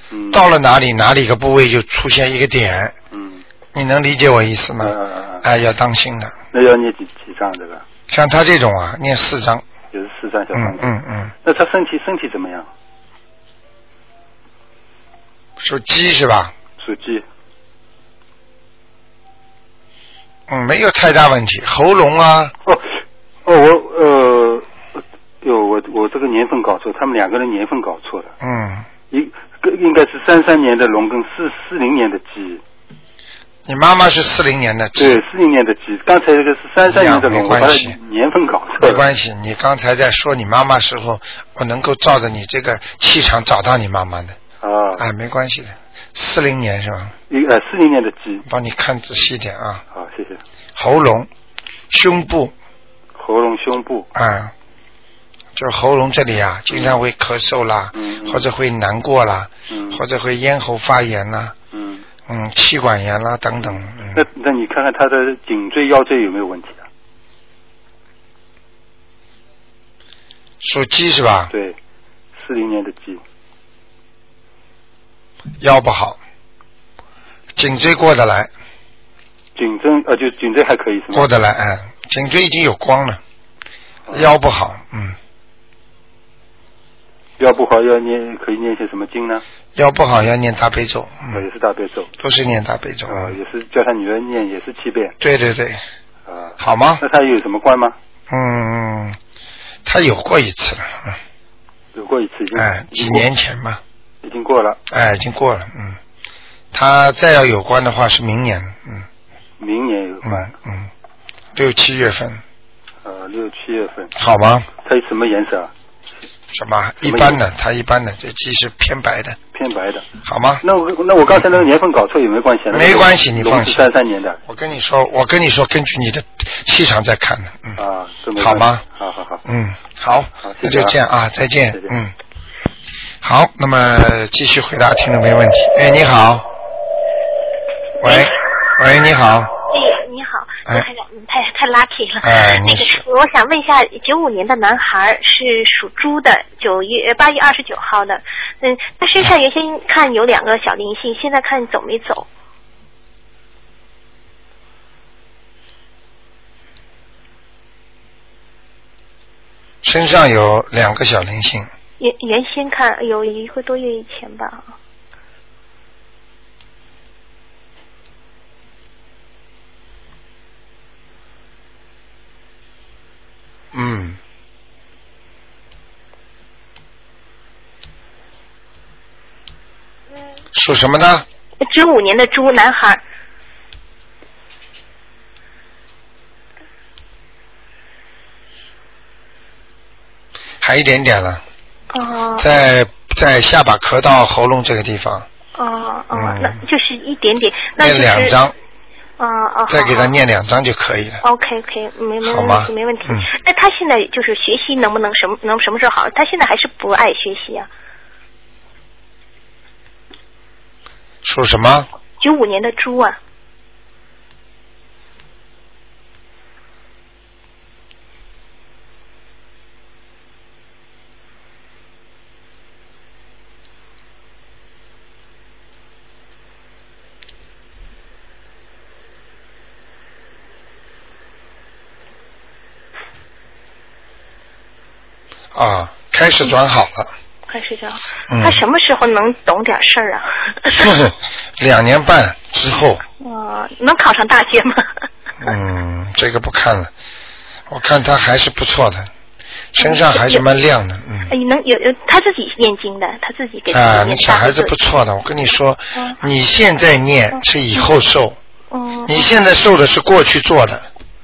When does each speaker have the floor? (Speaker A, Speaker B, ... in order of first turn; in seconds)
Speaker A: 0.1-0.4, 3.1-3.4, 4.8-5.4, 6.5-7.8, 9.9-10.9, 11.4-12.7, 16.8-17.2, 23.4-28.3, 29.1-32.6, 35.0-39.0, 44.6-45.0, 47.3-48.4, 49.9-50.4, 53.2-54.1, 56.7-57.0, 57.9-58.4, 59.7-60.0, 61.7-62.0, 64.1-66.8, 71.5-71.8, 72.3-73.2, 79.5-81.3, 87.4-89.4, 91.3-92.1, 93.1-95.1, 96.3-97.9, 101.9-103.2, 104.2-104.8, 109.6-110.5, 113.0-114.1, 114.8-115.7, 117.0-117.4, 119.5-120.1, 120.6-124.4, 127.8-129.4, 130.4-130.9
Speaker B: 0.3-2.9, 3.7-6.3, 8.1-9.6, 10.5-11.3, 15.6-16.5, 20.5-22.5, 28.4-28.9, 33.6-35.2, 36.9-38.0, 38.8-44.4, 45.0-47.1, 48.5-49.8, 50.8-51.3, 51.9-52.5, 54.1-54.5, 55.5-61.5, 62.3-64.2, 70.6-71.5, 75.6-76.2, 77.5-78.5, 81.1-83.2, 84.1-85.2, 89.7-91.5, 92.2-93.3, 95.2-95.8, 96.6-97.0, 98.3-99.2, 99.8-101.2, 102.5-103.8, 104.9-106.0, 106.7-109.1, 110.2-110.9, 111.5-112.4, 114.2-114.7, 116.5-119.4, 120.2-120.6, 122.7-123.8, 124.5-127.8, 128.3-128.8, 129.4-132.1, 133.2-136.5, 138.0-139.5, 142.2-143.0, 159.8-161.7, 173.7-174.2, 180.5-181.2, 190.6-191.4, 192.4-195.2, 196.1-196.6, 197.8-198.5, 199.7-201.2, 202.2-203.3, 211.2-211.9, 235.5-237.1, 238.3-238.6, 240.7-243.0, 245.4-246.9, 247.7-249.1, 249.7-251.3, 253.7-258.4, 259.1-260.9
Speaker C: 138.0-138.3, 139.7-152.3, 162.0-164.7, 181.6-183.0, 191.9-192.5, 195.6-198.3, 199.2-200.1, 201.2-207.7, 212.2-213.2, 237.5-240.9, 243.2-244.9, 249.8-250.4, 251.3-254.7, 258.7-259.3